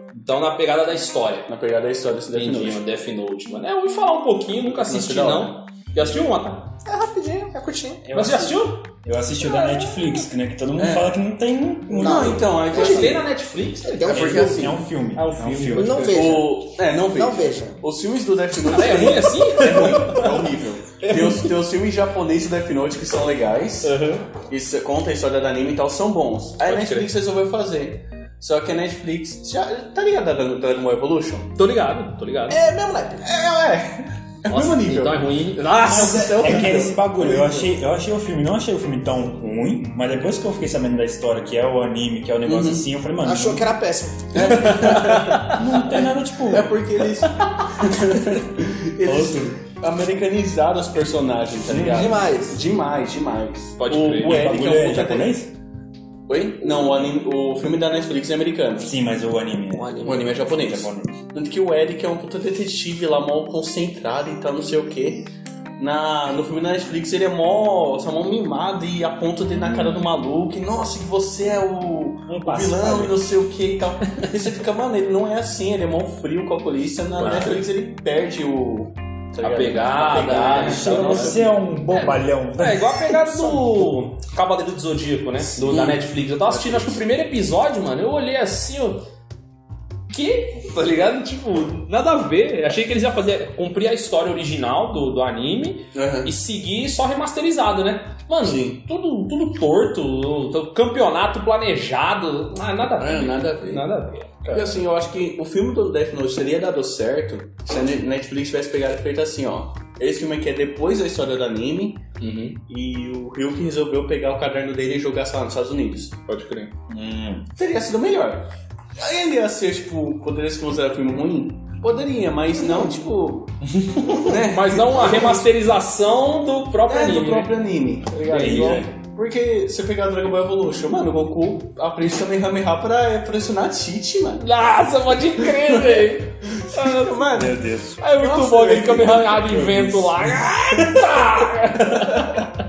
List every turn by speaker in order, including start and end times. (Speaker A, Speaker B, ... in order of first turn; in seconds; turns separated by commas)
Speaker A: 0.1-1.5, Speaker B: 1.5-2.8, Speaker A: 2.3-6.7, Speaker B: 4.7-5.6, Speaker C: 6.8-8.1, Speaker D: 8.1-12.6, Speaker A: 8.1-10.2, Speaker B: 10.8-11.2, Speaker B: 11.9-13.2, Speaker C: 12.0-13.2, Speaker A: 12.7-14.3, Speaker C: 13.8-14.7, Speaker B: 14.0-14.8, Speaker D: 14.1-16.2, Speaker A: 15.2-16.2, Speaker C: 15.7-17.8, Speaker B: 16.1-31.5, Speaker A: 18.7-20.3, Speaker A: 23.8-24.3, Speaker A: 26.6-27.1, Speaker A: 31.6-32.6, Speaker C: 32.5-33.5, Speaker B: 33.2-37.7, Speaker A: 34.5-36.5, Speaker D: 35.8-43.7, Speaker B: 42.5-42.9, Speaker C: 43.2-44.8, Speaker B: 44.3-55.4, Speaker A: 44.5-45.6, Speaker D: 45.5-46.8, Speaker D: 49.0-49.6, Speaker D: 51.7-52.1, Speaker C: 51.8-52.6, Speaker A: 53.8-54.5, Speaker D: 54.2-55.5, Speaker B: 56.3-58.9, Speaker D: 58.8-61.2, Speaker A: 59.8-60.3, Speaker B: 60.0-81.6, Speaker D: 72.3-73.2, Speaker A: 77.2-77.7, Speaker A: 79.4-89.0, Speaker D: 80.4-84.0, Speaker B: 85.5-87.0, Speaker A: 90.1-104.8, Speaker B: 95.9-96.3, Speaker B: 98.4-98.8, Speaker B: 103.0-103.9, Speaker B: 104.5-112.0, Speaker A: 112.2-112.6, Speaker B: 112.7-116.2, Speaker A: 116.3-116.7, Speaker D: 116.9-117.5, Speaker B: 117.6-123.6, Speaker D: 123.7-124.2, Speaker B: 124.2-125.5, Speaker A: 124.2-127.5, Speaker B: 126.9-134.5, Speaker A: 128.3-128.8, Speaker D: 128.3-128.9, Speaker A: 134.4-137.1, Speaker B: 135.4-140.0, Speaker D: 137.3-138.0, Speaker A: 138.0-142.5